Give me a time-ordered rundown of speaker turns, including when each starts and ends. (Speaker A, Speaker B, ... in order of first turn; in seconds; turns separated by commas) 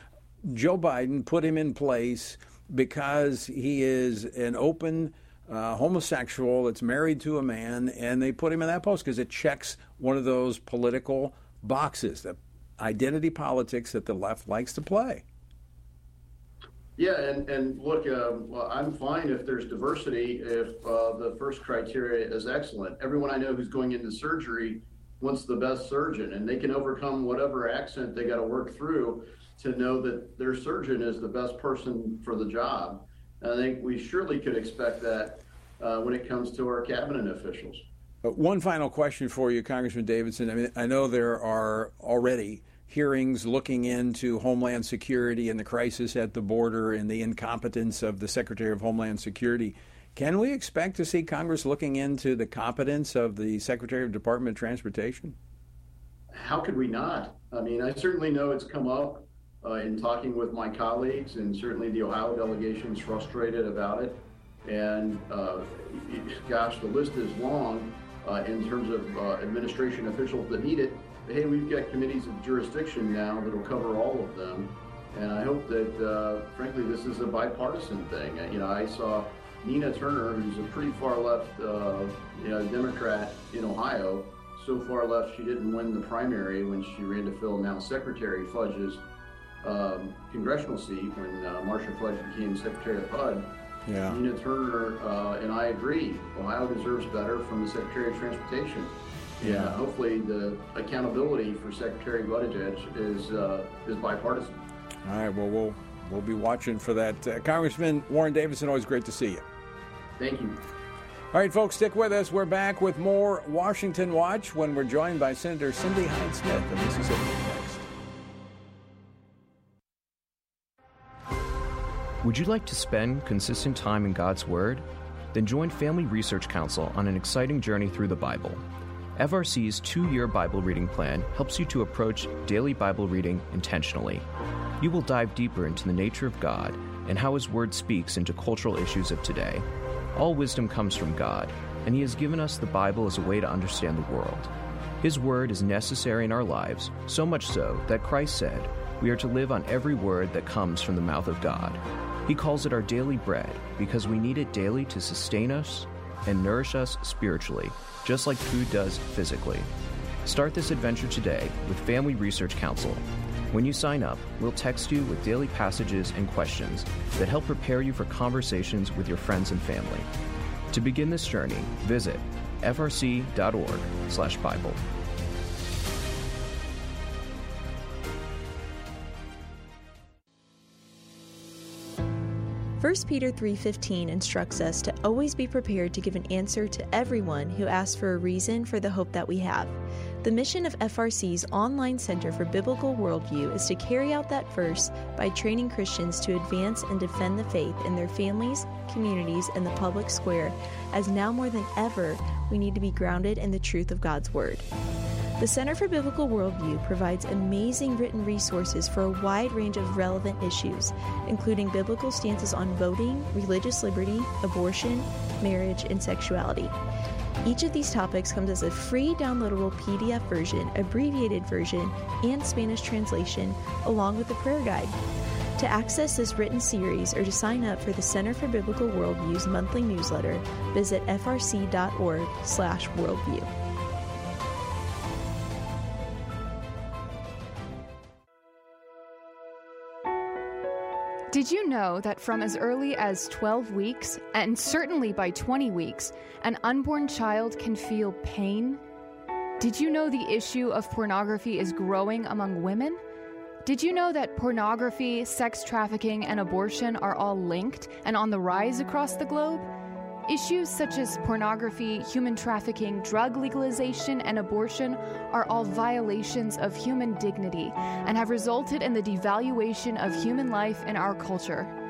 Speaker A: 0.4-15.2, Speaker B: 17.0-37.9, Speaker A: 38.2-55.4, Speaker B: 56.3-89.0, Speaker B: 89.6-93.5, Speaker A: 93.9-94.2, Speaker B: 94.1-104.6, Speaker A: 99.4-99.8, Speaker A: 105.0-109.4, Speaker B: 110.2-110.6, Speaker A: 111.3-117.9, Speaker C: 122.2-134.3, Speaker C: 134.8-159.7, Speaker C: 160.2-170.1, Speaker C: 170.7-174.8, Speaker D: 182.8-204.7, Speaker D: 205.4-216.8, Speaker D: 217.4-225.0, Speaker D: 225.6-233.5, Speaker E: 241.3-248.8, Speaker E: 249.6-253.0, Speaker E: 253.6-259.7, Speaker E: 260.3-271.7